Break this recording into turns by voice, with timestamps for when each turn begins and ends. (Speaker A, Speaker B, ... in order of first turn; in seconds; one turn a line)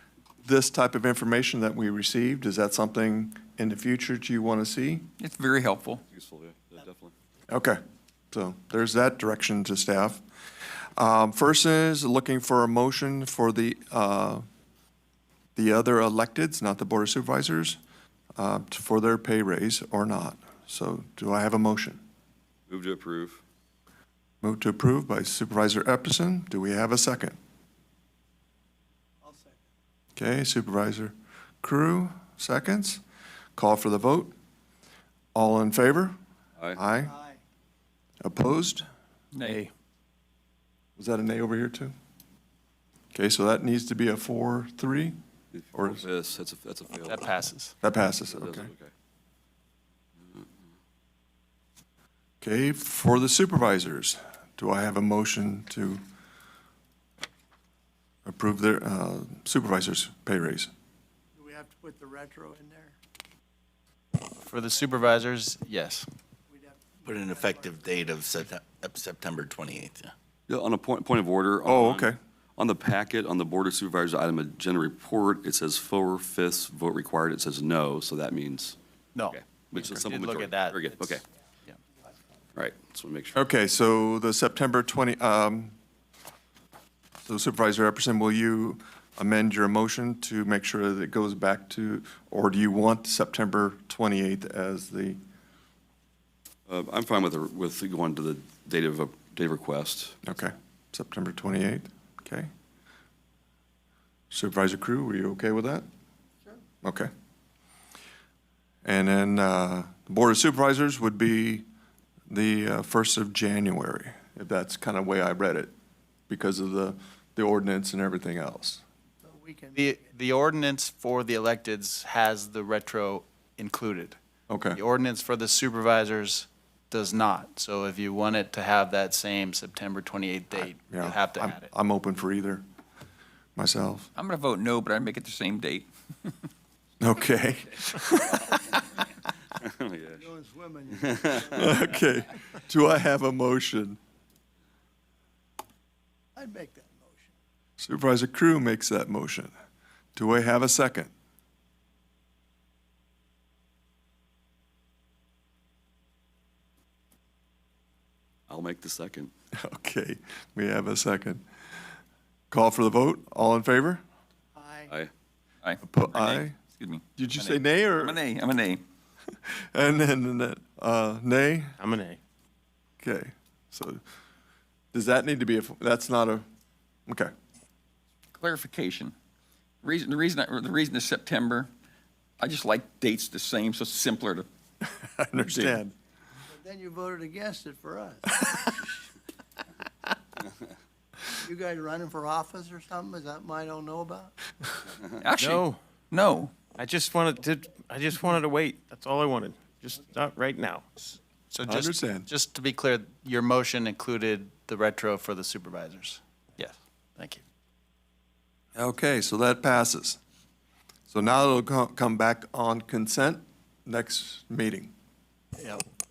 Speaker A: 0.4-5.1
Speaker B: 5.2-6.0
Speaker C: 6.1-7.1
Speaker A: 7.5-7.8
Speaker A: 8.3-10.2
Speaker A: 11.0-14.4
Speaker A: 15.6-17.8
Speaker A: 18.4-22.0
Speaker C: 22.7-23.4
Speaker A: 24.4-27.4
Speaker D: 29.2-29.6
Speaker A: 30.1-33.0
Speaker A: 33.5-34.3
Speaker A: 35.3-36.1
Speaker A: 36.7-37.1
Speaker A: 38.2-38.8
Speaker B: 39.3-39.6
Speaker A: 41.0-41.9
Speaker A: 43.1-45.1
Speaker C: 45.5-47.3
Speaker A: 45.7-46.0
Speaker E: 47.0-47.7
Speaker A: 47.8-48.7
Speaker C: 48.3-48.9
Speaker A: 52.4-56.0
Speaker A: 58.2-60.7
Speaker D: 61.4-62.9
Speaker E: 64.3-66.1
Speaker D: 66.5-68.2
Speaker F: 67.0-70.1
Speaker C: 70.5-78.8
Speaker A: 71.7-72.2
Speaker E: 79.2-81.8
Speaker C: 79.3-81.2
Speaker C: 82.6-83.4
Speaker A: 83.3-85.7
Speaker A: 87.2-95.2
Speaker C: 96.7-100.2
Speaker A: 100.2-102.5
Speaker A: 104.3-105.9
Speaker A: 106.8-107.1
Speaker A: 108.8-111.7
Speaker A: 112.3-115.7
Speaker A: 116.3-118.8
Speaker D: 119.2-119.8
Speaker E: 119.8-124.2
Speaker A: 124.5-124.8
Speaker E: 124.7-131.7
Speaker A: 130.9-132.6
Speaker A: 133.6-134.1
Speaker B: 134.1-136.3
Speaker A: 137.0-138.6
Speaker C: 139.6-140.3
Speaker D: 140.2-141.9
Speaker C: 141.0-141.8
Speaker A: 141.5-144.0
Speaker D: 146.3-147.3
Speaker A: 147.8-149.5
Speaker A: 150.2-151.1
Speaker C: 158.5-159.3
Speaker A: 159.6-161.4
Speaker A: 162.5-164.0
Speaker D: 164.6-164.9
Speaker B: 165.6-168.8
Speaker A: 165.8-166.5
Speaker A: 167.2-168.2
Speaker A: 169.5-171.7
Speaker G: 171.8-172.2
Speaker A: 173.0-174.0
Speaker A: 174.9-176.4
Speaker B: 178.3-179.1
Speaker B: 179.8-181.7
Speaker B: 182.4-184.5
Speaker A: 185.2-185.9
Speaker D: 186.5-188.8
Speaker D: 191.3-194.3
Speaker B: 195.2-196.5
Speaker G: 195.4-195.8
Speaker G: 196.8-201.0
Speaker E: 201.5-207.4
Speaker A: 201.7-202.3
Speaker A: 208.8-210.2
Speaker A: 211.1-214.9